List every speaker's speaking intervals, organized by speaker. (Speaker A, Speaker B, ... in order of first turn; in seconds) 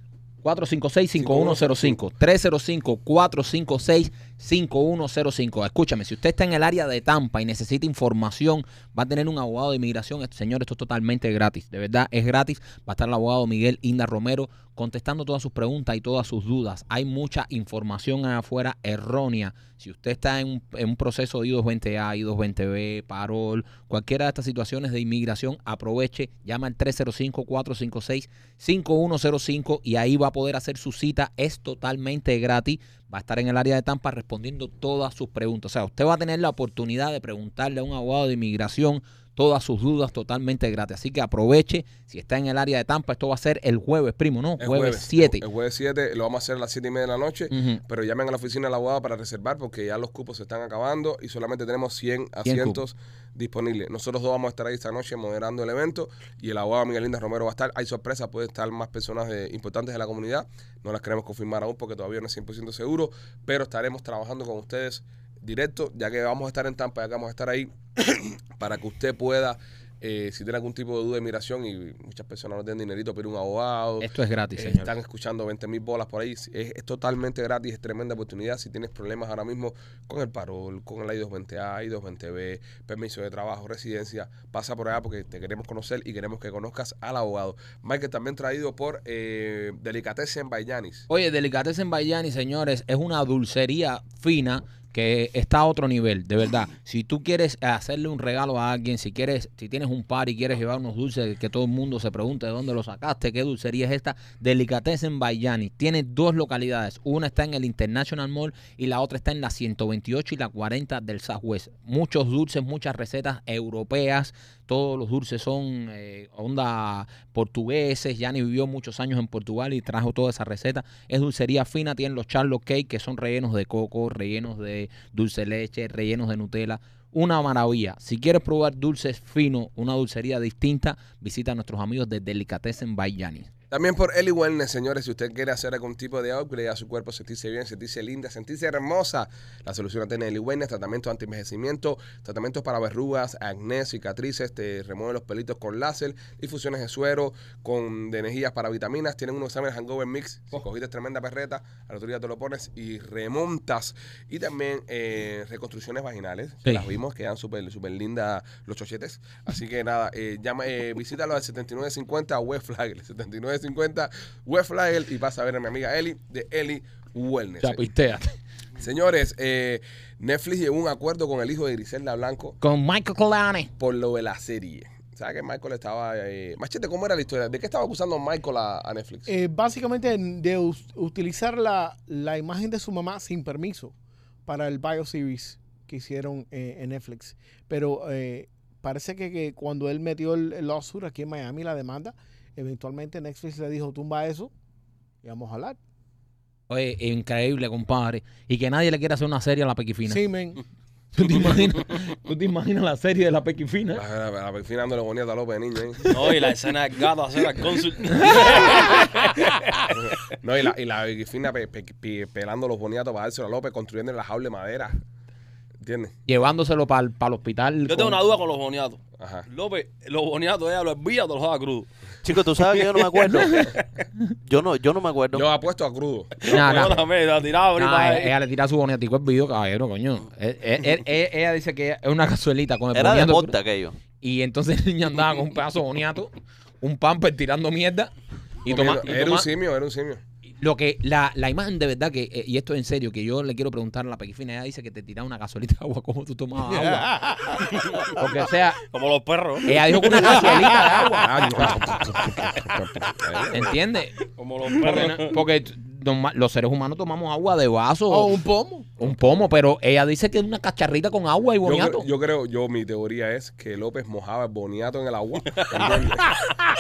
Speaker A: 0.4-45.4, 47.5-47.8, 52.4-52.8, 74.0-74.9, 91.1-133.5, 167.6-168.3, 172.6-173.7, 196.7-200.2, 201.1-204.0, 208.2-209.1, 216.3-218.2, 223.3-223.7, 226.5-227.0, 227.8-233.6, 234.2-238.1, 238.6-239.5, 240.6-247.5, 248.1-248.8, 249.6-251.8, 253.5-254.2, 254.8-258.4, 259.0-262.1
Speaker B: 1.2-2.0, 44.6-91.1, 133.7-167.8, 168.8-172.6, 173.8-179.3, 203.9-206.1, 209.9-215.0, 215.8-216.1, 219.2-219.5, 225.3-227.0, 238.7-240.2, 251.2-253.8, 259.0-259.4, 261.6-266.4
Speaker C: 179.3-183.9, 184.5-194.5, 195.2-195.8, 200.1-200.6, 246.8-247.6, 249.9-251.2, 258.1-258.9
Speaker D: 206.1-209.9, 217.9-221.9, 222.6-223.7, 226.4-228.3, 247.7-248.1, 248.9-250.6, 254.4-255.4
Speaker E: 222.2-223.7, 224.5-225.5, 232.9-234.0